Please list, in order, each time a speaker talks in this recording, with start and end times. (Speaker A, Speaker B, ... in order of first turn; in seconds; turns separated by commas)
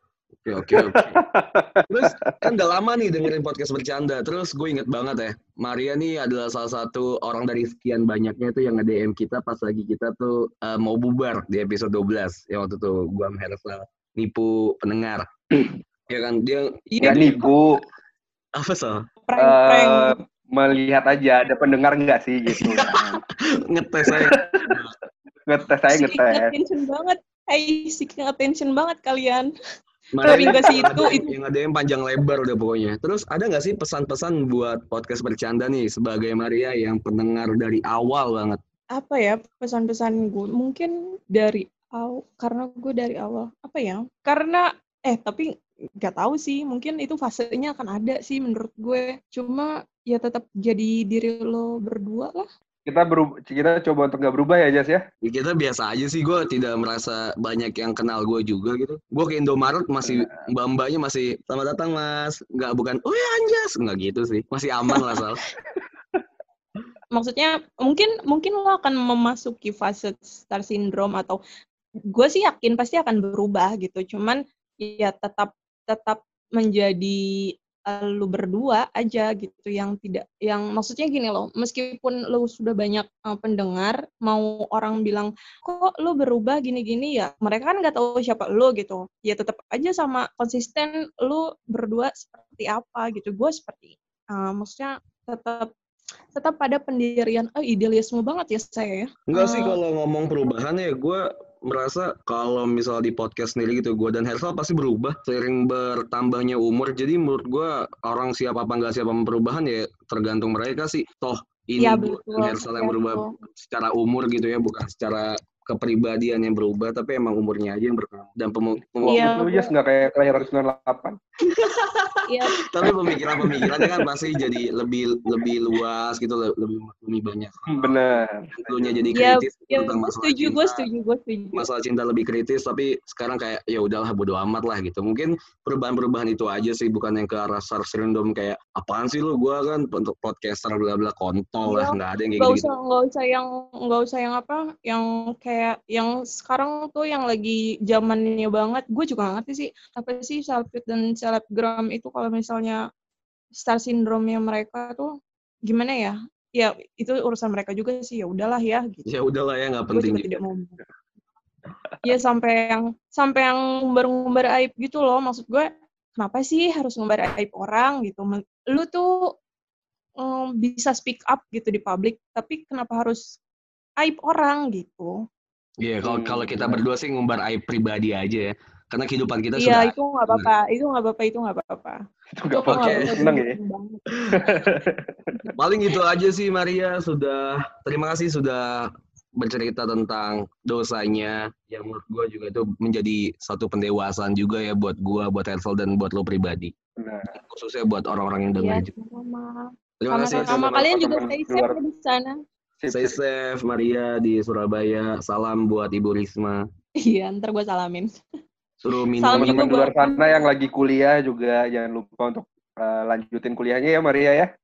Speaker A: 0.4-1.2, Speaker B: 0.7-2.4, Speaker A: 1.9-17.5, Speaker C: 16.9-17.5, Speaker B: 17.0-17.8, Speaker A: 18.5-19.0, Speaker C: 19.3-20.1, Speaker B: 19.4-23.2, Speaker A: 22.5-23.1, Speaker A: 23.7-24.9, Speaker B: 24.1-24.7, Speaker B: 25.5-26.5, Speaker C: 25.9-29.5, Speaker A: 30.1-38.6, Speaker C: 30.2-31.3, Speaker B: 30.3-31.1, Speaker C: 39.0-45.5, Speaker C: 46.0-52.5, Speaker B: 52.9-55.0, Speaker A: 55.2-65.4, Speaker C: 67.1-71.4, Speaker C: 72.1-95.7, Speaker C: 96.3-99.8, Speaker A: 99.3-119.3, Speaker C: 111.8-113.3, Speaker B: 119.0-121.2, Speaker C: 119.0-119.7, Speaker A: 121.5-130.8, Speaker C: 122.3-122.6, Speaker B: 127.7-129.0, Speaker C: 129.1-131.6, Speaker A: 131.5-142.7, Speaker C: 141.7-152.8, Speaker C: 153.5-155.1, Speaker C: 155.7-159.0, Speaker A: 159.1-160.4, Speaker C: 159.9-160.8, Speaker C: 162.0-169.2, Speaker C: 170.2-173.2, Speaker C: 174.0-175.1, Speaker A: 175.8-180.5, Speaker B: 176.0-176.8, Speaker C: 179.6-182.0, Speaker B: 182.4-183.6, Speaker C: 182.5-184.0, Speaker A: 182.6-183.3, Speaker A: 184.1-184.5, Speaker B: 184.4-185.1, Speaker A: 185.6-196.7, Speaker B: 197.0-197.3, Speaker A: 197.3-198.9, Speaker C: 198.5-202.4, Speaker A: 200.0-201.4, Speaker B: 200.3-201.8, Speaker B: 202.8-203.2, Speaker A: 202.9-206.6, Speaker C: 207.0-208.1, Speaker A: 208.8-209.7, Speaker C: 209.2-210.5, Speaker B: 209.3-214.5